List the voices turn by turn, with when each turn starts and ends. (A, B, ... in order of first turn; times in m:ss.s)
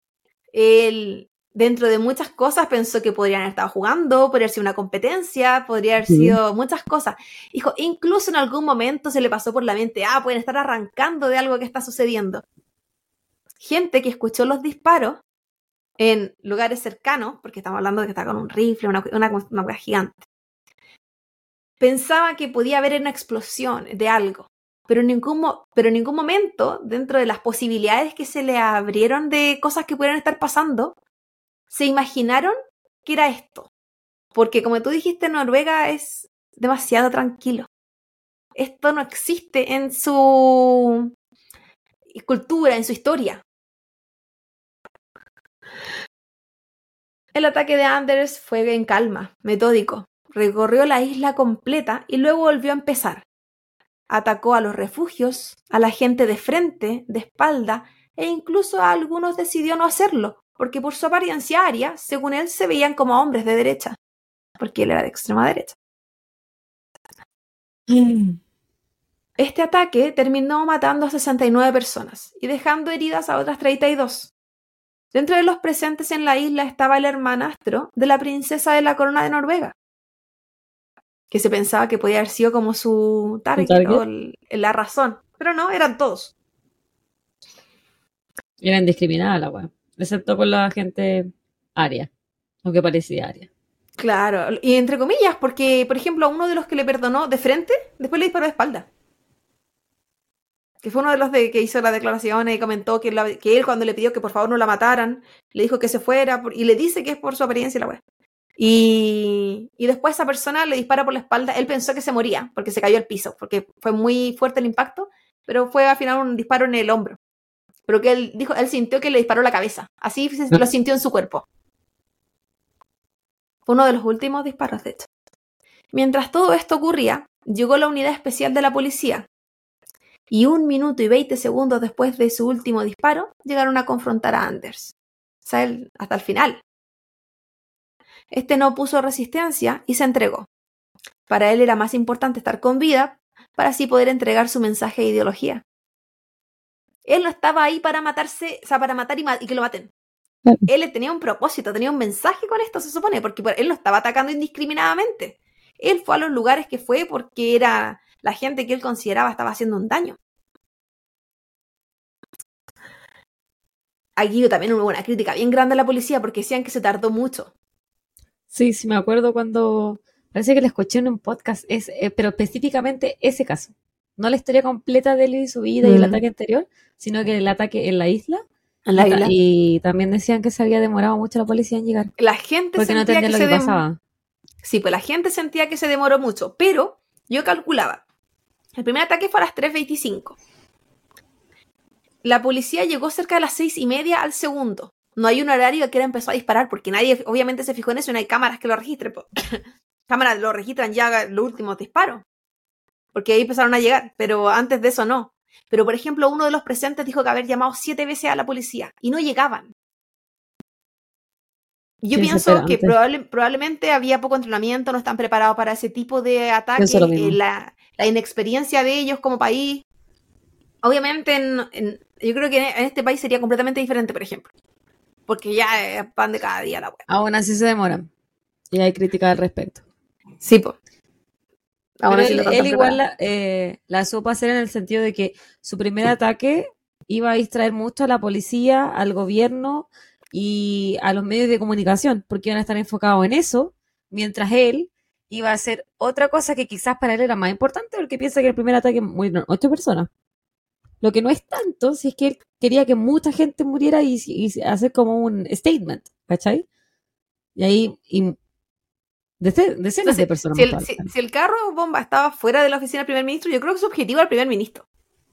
0:00.5-0:12.4 A
0:06.1-0:06.4 B
0:13.6-0:15.2 A
0:16.0-0:20.2 A
0:21.8-0:30.9 A
0:31.7-0:32.5 A
0:33.0-0:33.7 A
0:34.3-0:37.7 A
0:38.6-0:41.1 A
0:42.1-0:43.4 A
0:47.3-0:53.2 A
0:54.1-1:04.0 A
1:04.6-1:05.8 A
1:09.4-1:14.3 A
1:15.1-1:19.7 A
1:21.3-1:26.3 A
1:23.6-1:24.0 B
1:28.6-1:32.1 B
1:32.6-1:33.5 B
1:34.0-1:38.9 A
1:40.8-1:48.0 A
1:48.6-1:57.2 A
1:57.9-2:01.4 A
2:03.7-2:05.1 A
2:05.9-2:09.2 A
2:10.3-2:16.6 A
2:18.3-2:20.5 A
2:21.3-2:25.6 A
2:27.0-2:29.9 A
2:30.7-2:40.2 A
2:44.2-2:47.5 A
2:48.5-2:58.4 B
2:55.8-2:56.2 A
2:58.8-2:59.3 A
2:59.0-3:02.1 B
3:02.2-3:03.8 A
3:02.8-3:04.0 B
3:04.6-3:08.0 A
3:08.8-3:10.4 A
3:12.2-3:19.6 A
3:20.1-3:22.2 A
3:23.1-3:29.7 A
3:32.0-3:39.8 A
3:32.1-3:32.9 B
3:36.8-3:37.4 B
3:40.8-3:44.5 A
3:45.3-3:47.0 A
3:47.1-3:48.1 B
3:48.7-3:49.8 B
3:50.4-3:50.7 A
3:52.0-3:53.0 A
3:52.1-4:10.1 B
4:11.0-4:16.6 B
4:17.6-4:18.4 B
4:19.4-4:21.1 B
4:20.0-4:24.8 A